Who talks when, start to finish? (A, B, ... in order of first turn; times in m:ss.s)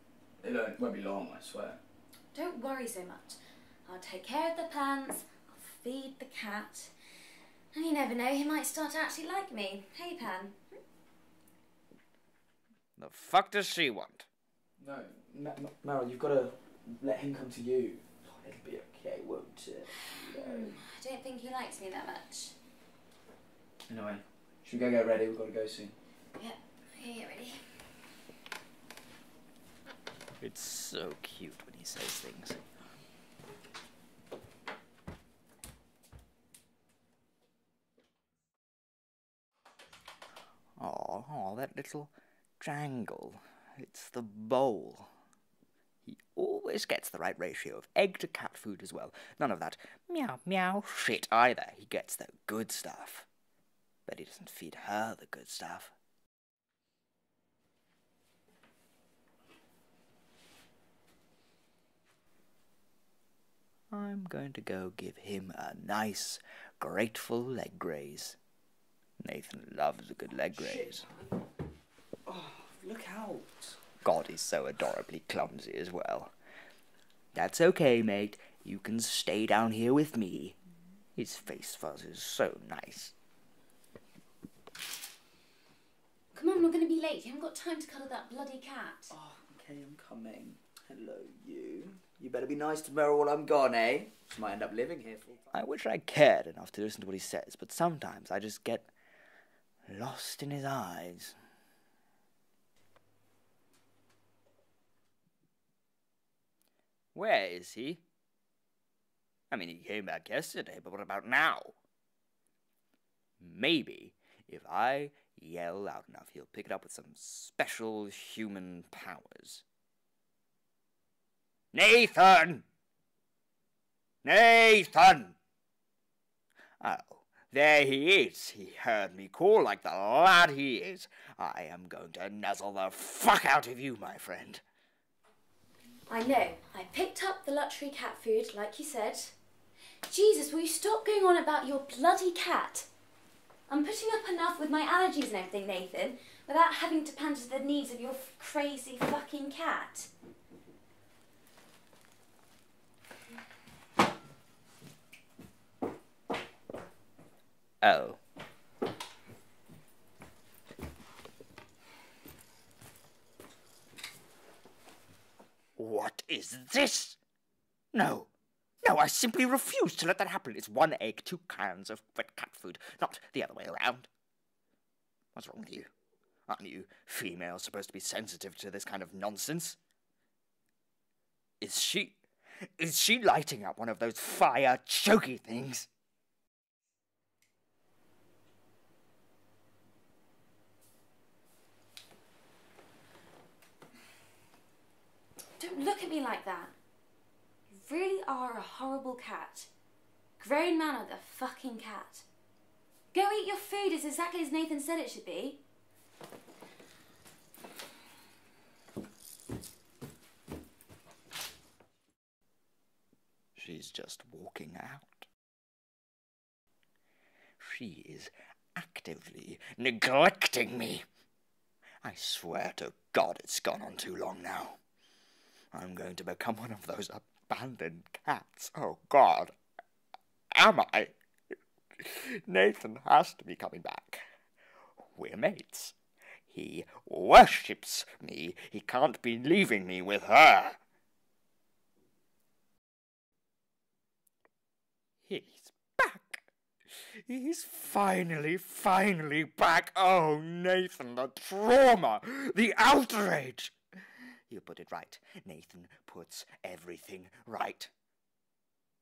0:00.4-0:01.8 A
0:02.3-0:06.9 B
0:07.7-0:10.8 B
0:13.0-0:14.3 C
0:14.8-0:20.8 A
0:20.2-0:22.6 B
0:23.9-0:26.0 A
0:26.4-0:27.9 B
0:30.4-0:32.6 C
0:40.8-0:45.1 C
0:46.0-0:53.3 C
0:54.1-0:55.9 C
1:03.9-1:08.4 C
1:09.2-1:11.1 C
1:10.5-1:11.1 A
1:12.3-1:13.8 A
1:14.0-1:16.3 C
1:17.3-1:20.6 C
1:21.2-1:23.1 C
1:26.3-1:29.1 B
1:29.1-1:35.5 A
1:35.5-1:38.9 C
1:39.9-1:41.4 C
1:47.1-1:48.0 C
1:49.5-1:51.8 C
1:53.4-1:59.6 C
2:01.7-2:02.6 C
2:04.2-2:05.4 C
2:06.8-2:14.6 C
2:16.1-2:19.4 B
2:20.1-2:22.9 B
2:23.7-2:30.1 B
2:37.8-2:38.2 C
2:45.8-2:47.2 C
2:47.9-2:48.3 C
2:48.8-2:54.1 C
2:55.4-2:55.9 C
2:56.5-2:59.8 C
3:01.6-3:02.2 C
3:02.8-3:05.9 C
3:15.6-3:16.7 B
3:17.7-3:19.7 B
3:20.4-3:22.2 B
3:23.1-3:25.6 B
3:33.6-3:35.3 C
3:37.6-3:41.0 C
3:42.0-3:44.8 C
3:45.7-3:49.5 C
3:50.5-3:51.1 C
3:52.0-3:54.2 C
3:55.2-3:56.0 C
3:56.5-4:00.8 C
4:05.2-4:13.8 C
4:14.5-4:17.9 C